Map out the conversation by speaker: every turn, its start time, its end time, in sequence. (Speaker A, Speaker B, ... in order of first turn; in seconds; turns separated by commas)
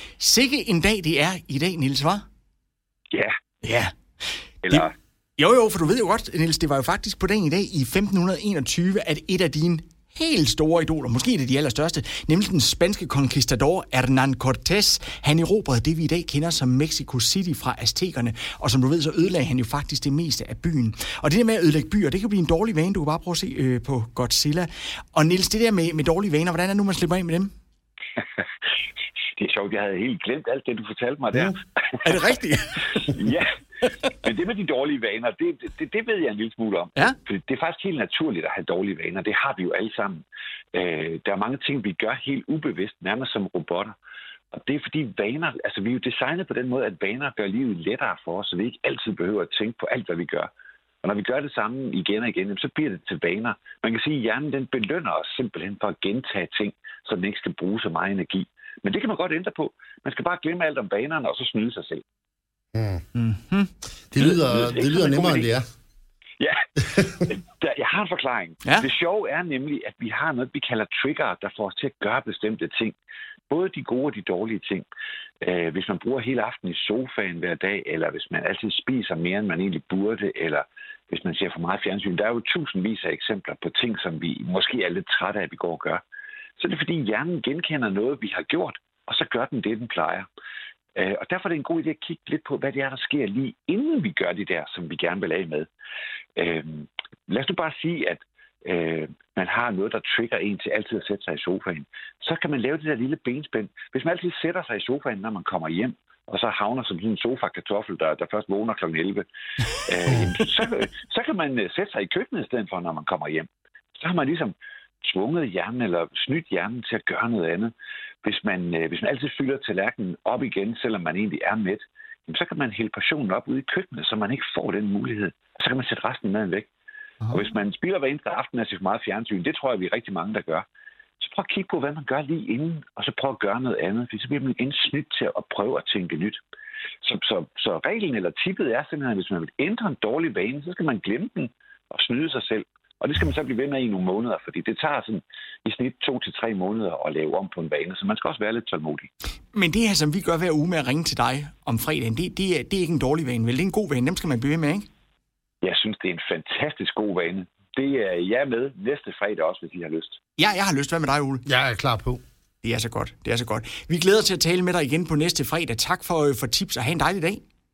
Speaker A: 0.2-2.2, Speaker A: 3.6-4.9, Speaker B: 4.6-4.9, Speaker A: 5.4-27.5, Speaker B: 29.4-33.5, Speaker A: 32.0-33.2, Speaker B: 34.2-44.0, Speaker B: 44.5-50.5, Speaker B: 51.0-62.0, Speaker C: 62.7-63.0, Speaker A: 63.1-63.7, Speaker C: 64.1-65.7, Speaker B: 64.2-65.5, Speaker B: 66.4-73.0, Speaker B: 73.5-74.8, Speaker B: 75.4-86.0, Speaker B: 86.6-90.3, Speaker B: 91.0-95.7, Speaker B: 96.4-117.7, Speaker B: 118.2-126.7, Speaker B: 127.3-130.7, Speaker B: 131.2-136.4, Speaker B: 137.0-149.1, Speaker A: 149.5-154.9, Speaker B: 155.6-160.2, Speaker A: 160.4-161.4, Speaker C: 161.5-162.2, Speaker A: 162.6-167.4